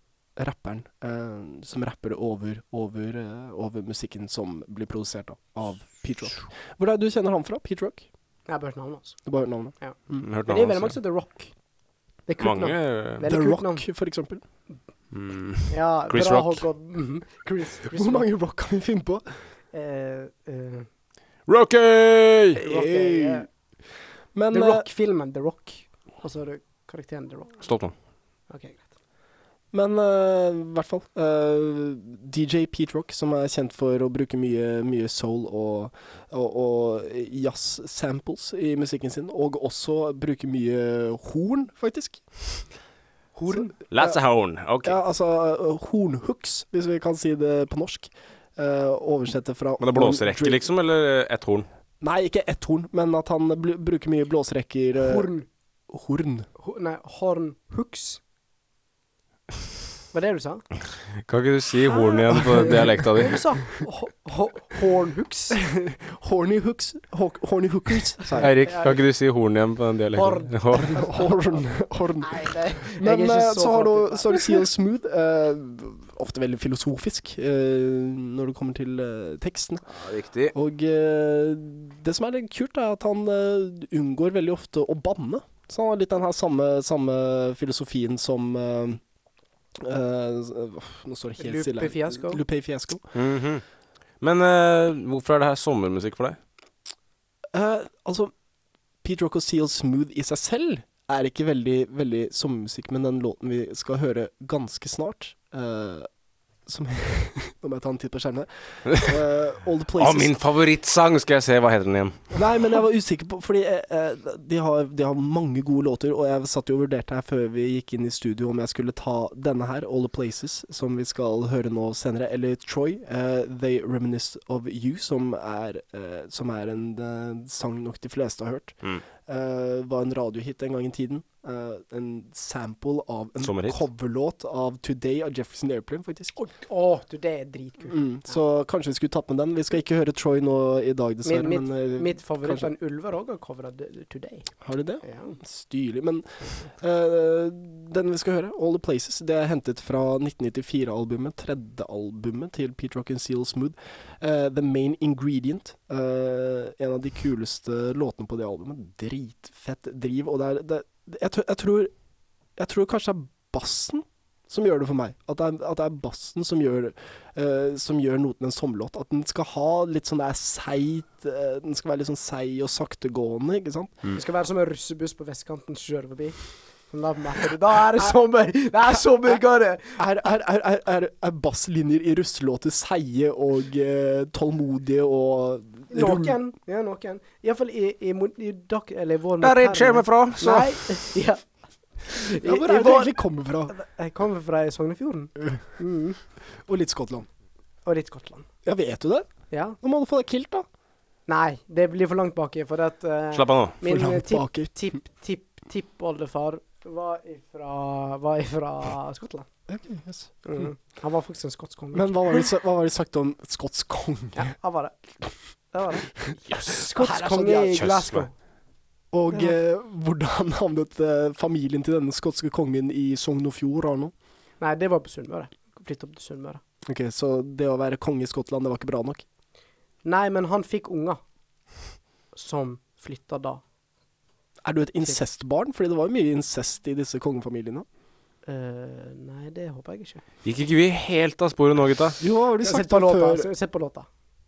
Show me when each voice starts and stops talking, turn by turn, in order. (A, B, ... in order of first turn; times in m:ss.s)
0:00.4-0:08.1 A
0:08.5-0:09.2 B
0:09.2-0:10.3 A
0:09.8-0:11.5 B
0:10.2-0:10.9 C
0:12.3-0:13.8 B
0:12.4-0:13.2 C
0:13.2-0:14.4 A
0:15.1-0:16.6 C
0:15.7-0:18.3 B
0:17.9-0:19.4 A
0:19.7-0:20.9 B
0:21.5-0:22.6 C
0:22.6-0:23.5 B
0:22.6-0:23.5 A
0:24.3-0:24.9 A
0:24.5-0:27.6 B
0:27.6-0:27.9 C
0:28.5-0:28.9 B
0:29.7-0:42.2 A
0:43.4-0:43.7 B
0:43.5-0:44.2 A
0:43.9-0:45.0 C
0:44.8-0:50.6 A
0:49.8-0:51.7 C
0:52.0-0:55.3 A
0:55.0-0:55.5 B
0:55.9-0:56.5 A
0:56.6-0:58.2 B
1:00.1-1:00.6 B
1:01.2-1:03.4 C
1:02.3-1:02.8 A
1:02.3-1:05.6 B
1:05.5-1:08.5 A
1:08.4-1:11.0 C
1:08.6-1:09.0 B
1:10.1-1:11.2 B
1:11.0-1:19.8 A
1:12.2-1:14.6 B
1:19.9-1:20.5 C
1:20.5-1:29.0 A
1:29.8-1:33.0 A
1:31.4-1:32.4 B
1:33.1-1:33.6 C
1:34.2-1:36.4 C
1:37.5-1:38.3 A
1:39.0-1:46.1 A
1:46.6-1:50.3 A
1:50.0-1:52.3 C
1:52.3-2:16.3 A
2:13.4-2:13.8 C
2:16.3-2:18.4 B
2:17.9-2:22.7 A
2:21.2-2:24.5 B
2:24.6-2:41.9 A
2:25.0-2:25.4 B
2:42.6-2:54.0 A
2:54.1-3:00.0 B
2:59.9-3:06.4 A
3:05.9-3:11.4 B
3:09.4-3:10.9 C
3:12.0-3:13.2 B
3:12.3-3:13.7 A
3:13.7-3:16.2 B
3:16.6-3:17.3 A
3:17.8-3:18.4 B
3:18.6-3:19.3 A
3:19.5-3:19.8 B
3:19.8-3:20.6 A
3:21.3-3:29.5 B
3:23.3-3:23.8 C
3:23.8-3:24.9 A
3:29.7-3:30.6 A
3:30.4-3:32.5 B
3:31.9-3:34.5 A
3:34.4-3:35.0 B
3:35.7-3:38.3 B
3:36.5-3:36.9 C
3:37.0-3:37.9 A
3:37.7-3:38.3 C
3:39.1-3:44.1 A
3:44.6-3:46.6 B
3:46.9-3:49.2 A
3:50.0-3:51.2 B
3:52.3-3:53.6 B
3:54.6-3:57.8 A
3:58.4-4:00.2 B
4:00.4-4:02.2 C
4:02.2-4:03.5 A
4:02.6-4:04.1 B